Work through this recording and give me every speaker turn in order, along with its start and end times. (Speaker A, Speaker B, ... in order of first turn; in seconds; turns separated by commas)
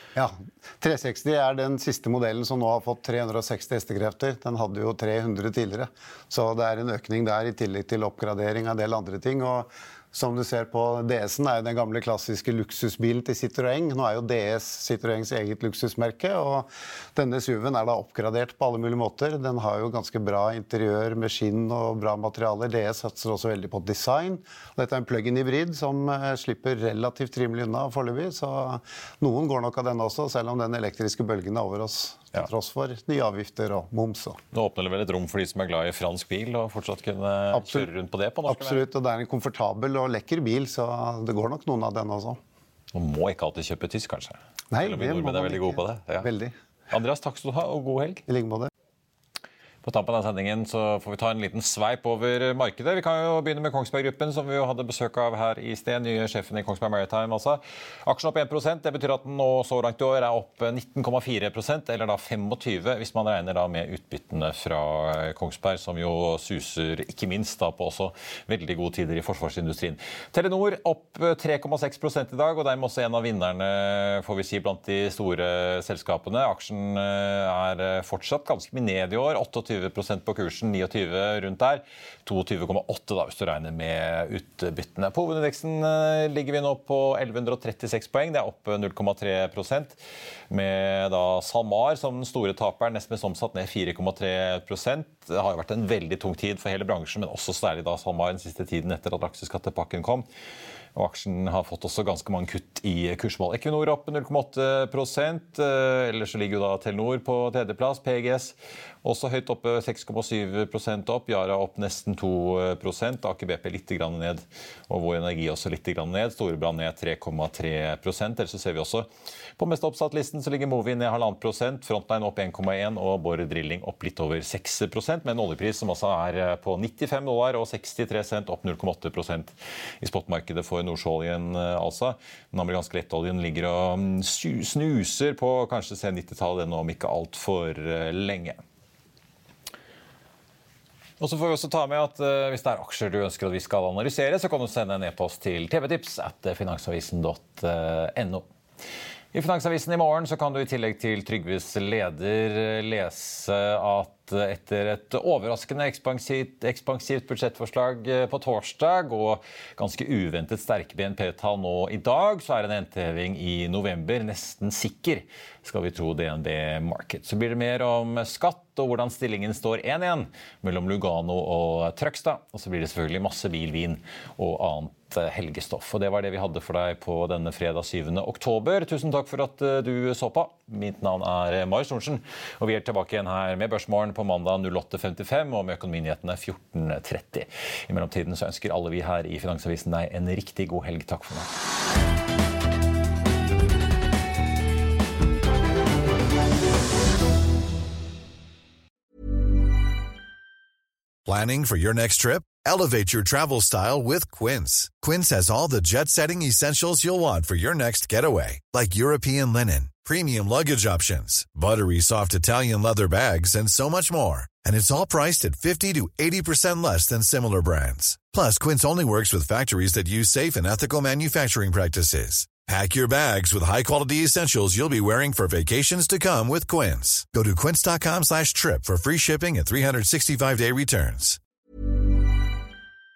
Speaker A: 0.1-34.4, Speaker B: 34.5-38.8, Speaker A: 37.5-37.9, Speaker A: 38.5-42.4, Speaker B: 42.9-46.3, Speaker A: 44.7-46.5, Speaker B: 46.9-48.2, Speaker A: 48.3-48.7, Speaker B: 49.8-90.0, Speaker B: 90.5-100.2, Speaker B: 100.9-138.6, Speaker B: 141.2-148.4, Speaker B: 149.3-191.5, Speaker C: 201.2-231.4